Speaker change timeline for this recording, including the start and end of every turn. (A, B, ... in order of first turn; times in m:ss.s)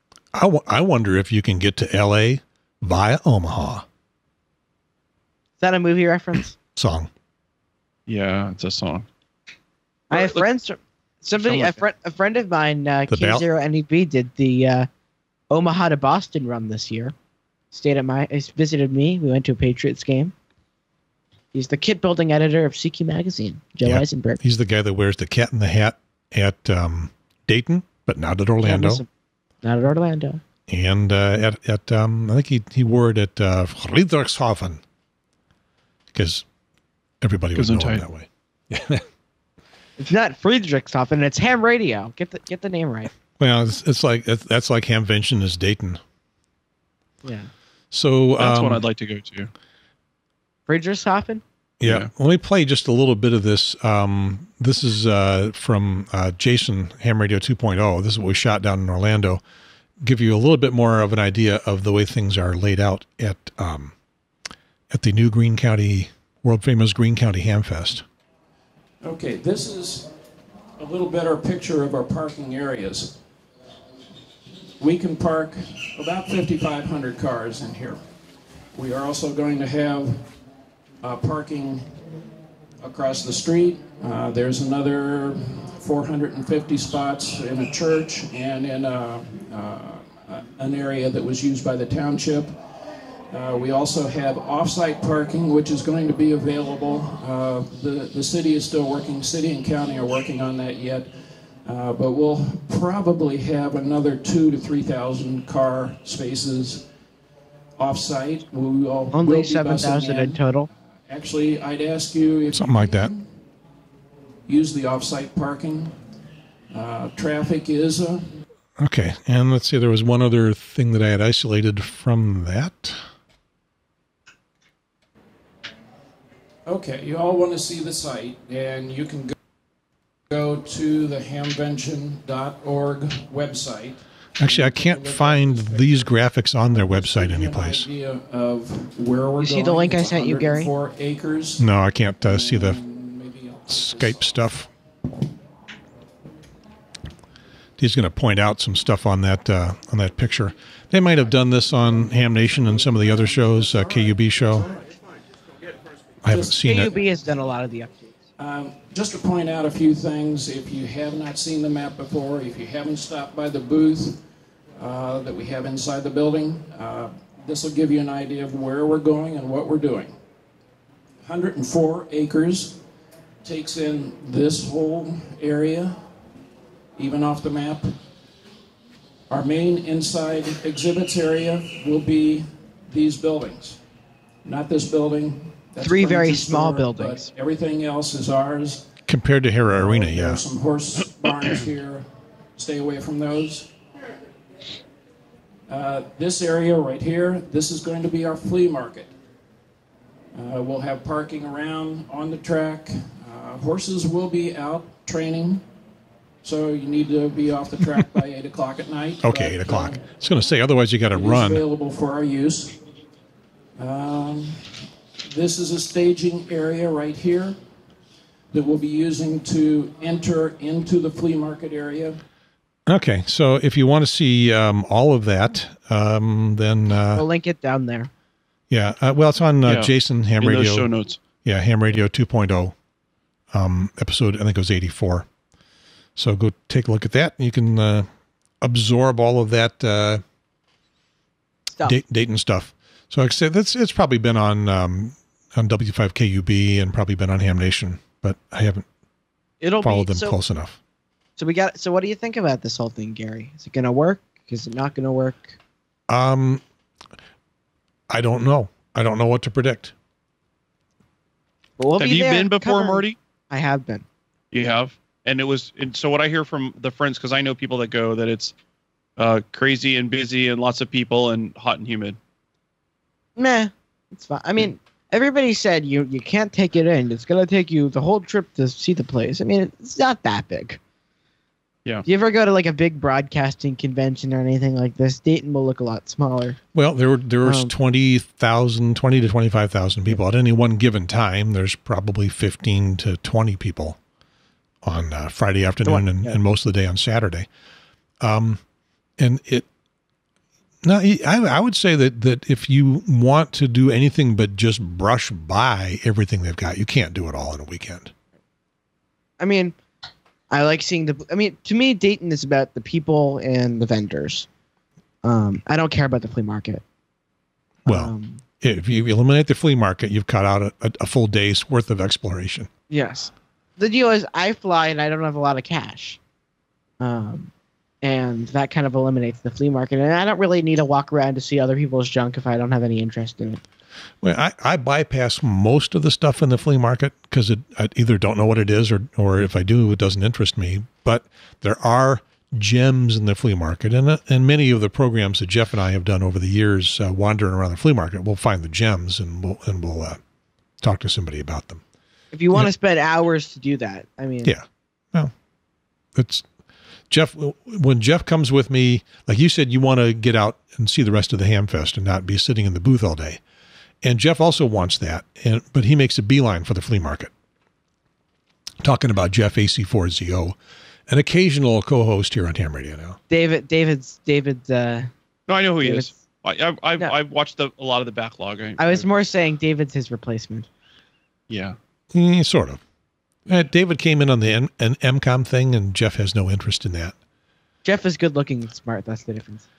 0:00.3-0:03.8 A
0:05.6-0:06.6 B
0:06.7-0:07.1 A
0:08.1-0:09.1 C
0:10.1-0:10.4 C
0:10.1-0:14.9 B
0:11.4-0:11.8 C
0:13.1-0:13.4 A
0:15.5-0:17.1 B
0:17.7-0:20.3 B
0:21.5-0:24.4 B
0:23.8-0:29.0 A
0:28.6-0:29.1 B
0:29.6-0:30.4 B
0:30.7-0:34.8 A
0:36.1-0:36.4 A
0:37.2-0:39.0 A
0:37.5-0:38.0 C
0:40.0-0:43.1 B
0:43.4-0:46.0 A
0:47.2-0:47.5 B
0:47.9-0:48.8 A
0:48.4-0:49.5 C
0:50.7-0:51.4 B
0:51.8-0:59.4 A
0:51.8-0:52.1 C
1:00.0-1:03.9 A
1:04.9-1:08.0 A
1:09.0-1:10.1 D
1:10.8-1:13.2 D
1:14.8-1:18.0 D
1:18.7-1:20.3 D
1:21.0-1:22.0 D
1:22.8-1:32.6 D
1:33.3-1:46.9 D
1:47.8-1:50.4 D
1:49.1-1:50.7 B
1:51.1-1:53.2 D
1:52.5-1:53.1 A
1:54.4-1:55.9 D
1:56.7-1:58.3 D
1:58.8-2:03.0 A
2:06.6-2:09.3 D
2:10.3-2:16.1 D
2:14.4-2:17.9 A
2:16.7-2:21.6 D
2:19.4-2:20.7 B
2:21.6-2:22.8 A
2:22.2-2:24.2 D
2:23.7-2:24.7 A
2:27.8-2:34.7 A
2:36.2-2:36.9 A
2:36.3-2:36.6 D
2:36.6-2:38.1 B
2:38.4-2:44.2 D
2:44.8-2:50.1 D
2:51.2-2:52.8 D
2:53.4-2:56.0 D
2:57.0-2:58.0 D
2:59.3-3:03.8 D
3:04.4-3:08.9 D
3:05.8-3:07.3 B
3:09.1-3:10.4 A
3:09.7-3:13.7 D
3:15.7-3:19.1 D
3:20.3-3:25.6 D
3:26.4-3:30.0 D
3:29.2-3:31.6 A
3:31.1-3:32.8 D
3:33.8-3:37.6 D
3:38.5-3:42.2 D
3:42.9-3:47.2 A
3:47.1-3:48.1 B
3:48.7-3:50.9 A
3:49.6-3:51.2 C
3:51.4-3:52.7 A
3:53.5-3:55.3 A
3:56.2-3:58.1 A
3:58.6-4:00.2 A
4:01.8-4:08.8 A
4:09.6-4:10.4 B
4:09.8-4:10.8 A
4:11.4-4:15.6 B
4:16.1-4:16.6 A
4:18.1-4:19.9 A
4:21.8-4:24.0 B
4:22.0-4:23.2 C
4:24.5-4:28.5 C
4:29.2-4:32.2 C
4:33.4-4:40.8 B
4:42.0-4:46.6 B
4:46.7-4:54.0 A
4:47.4-4:47.7 B
4:54.8-4:57.5 A
4:55.8-4:56.4 B
4:58.2-4:58.6 A
4:59.2-4:59.6 A
5:00.8-5:08.1 A
5:09.4-5:09.7 B
5:10.5-5:14.5 B
5:15.2-5:16.8 B
5:17.8-5:18.4 B
5:17.8-5:22.7 A
5:22.9-5:26.2 B
5:27.0-5:27.5 B
5:28.0-5:33.6 B
5:34.2-5:50.2 A
5:50.8-5:51.8 A
5:52.3-5:54.5 B
5:54.4-5:55.3 A
5:56.1-5:56.5 A
5:57.1-6:03.4 A
6:04.0-6:07.3 A
6:08.8-6:10.5 A
6:11.1-6:13.2 A
6:13.3-6:15.1 B
6:15.5-6:19.1 C
6:15.8-6:16.1 B
6:18.8-6:20.7 B
6:21.5-6:21.8 C
6:22.1-6:22.8 A
6:23.5-6:27.1 A
6:27.8-6:29.6 B